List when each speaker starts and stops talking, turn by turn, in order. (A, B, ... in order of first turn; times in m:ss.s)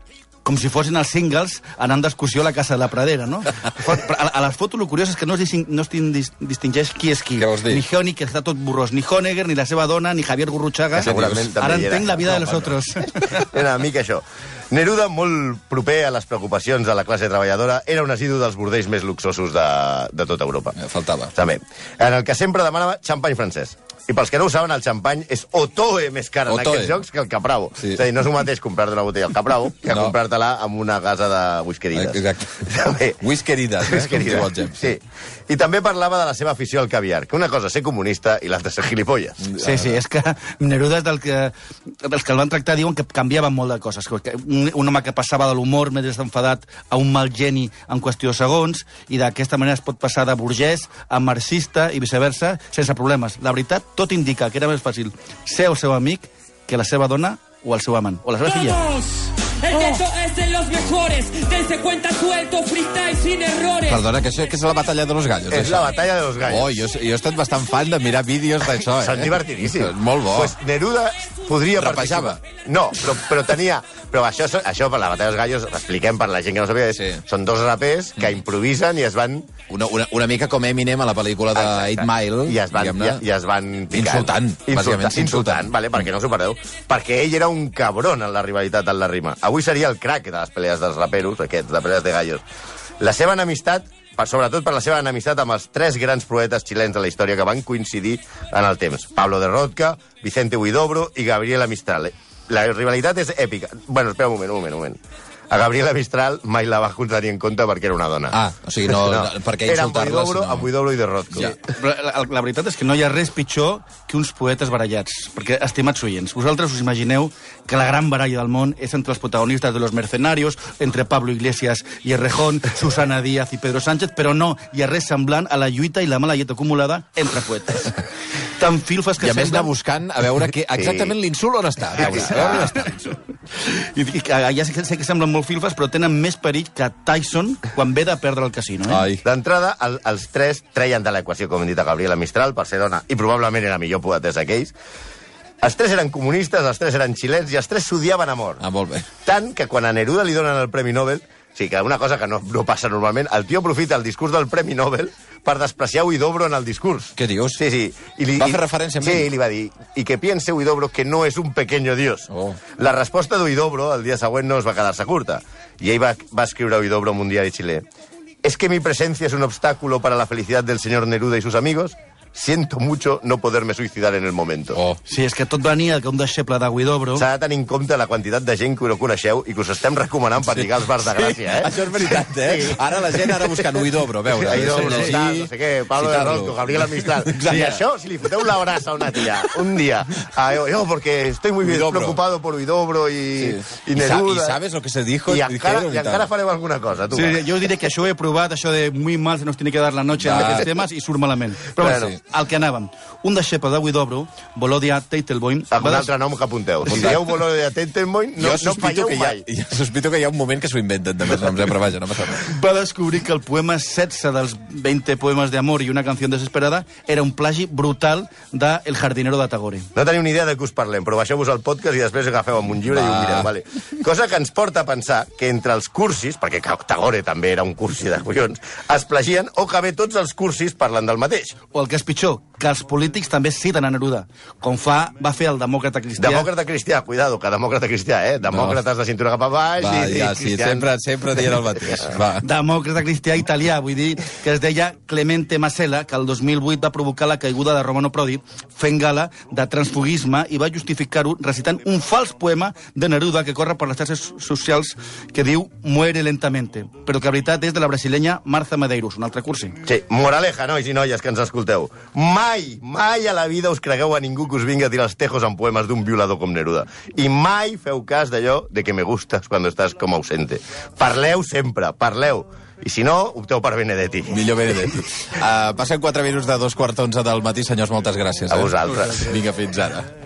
0:00.4-0:13.4 A
0:07.4-0:07.8 B
0:11.0-0:11.5 B
0:11.0-0:12.5 C
0:12.2-0:12.7 B
0:13.4-0:20.8 C
0:20.7-0:21.3 B
0:21.3-0:33.2 C
0:26.5-0:27.0 B
0:29.9-0:30.2 B
0:31.9-0:32.6 B
0:33.2-0:34.9 B
0:33.8-0:39.4 C
0:39.4-0:40.0 B
0:39.6-0:59.0 A
0:59.0-1:03.9 D
1:03.8-1:05.9 B
1:05.5-1:06.8 C
1:06.5-1:10.5 B
1:08.9-1:19.5 C
1:11.7-1:12.4 B
1:16.9-1:17.2 B
1:19.7-1:23.2 B
1:21.5-1:32.4 C
1:23.9-1:25.7 B
1:33.0-1:45.0 C
1:45.5-1:48.4 C
1:48.3-1:50.7 B
1:48.9-1:51.6 C
1:51.3-1:51.6 B
1:51.7-2:07.9 A
2:08.5-2:09.7 A
2:09.2-2:13.2 B
2:10.7-2:11.1 C
2:12.0-2:12.7 C
2:12.0-2:12.9 A
2:13.6-2:19.1 A
2:18.9-2:19.2 B
2:19.2-2:24.7 C
2:25.6-2:28.6 C
2:28.6-2:29.1 B
2:29.2-2:47.8 C
2:37.2-2:37.6 B
2:38.4-2:39.3 B
2:42.3-2:42.6 B
2:48.4-2:54.8 C
2:55.0-2:57.3 A
2:57.2-3:03.8 C
3:00.5-3:07.8 B
3:04.4-3:14.6 C
3:09.3-3:09.6 B
3:11.6-3:12.2 B
3:13.4-3:16.3 B
3:15.3-3:17.4 C
3:17.1-3:26.1 A
3:20.2-3:20.6 B
3:20.3-3:20.6 C
3:21.8-3:22.1 C
3:21.8-3:22.2 B
3:25.7-3:29.4 C
3:26.8-3:27.2 B
3:28.4-3:32.5 B
3:32.4-3:39.9 A
3:39.9-3:51.6 C
3:42.9-3:43.5 B
3:51.7-3:56.5 A
3:56.2-4:00.9 C
3:58.5-3:58.8 B
3:59.8-4:02.4 B
4:02.4-4:19.8 A
4:19.8-4:34.5 C
4:34.3-4:40.1 B
4:38.5-4:39.3 C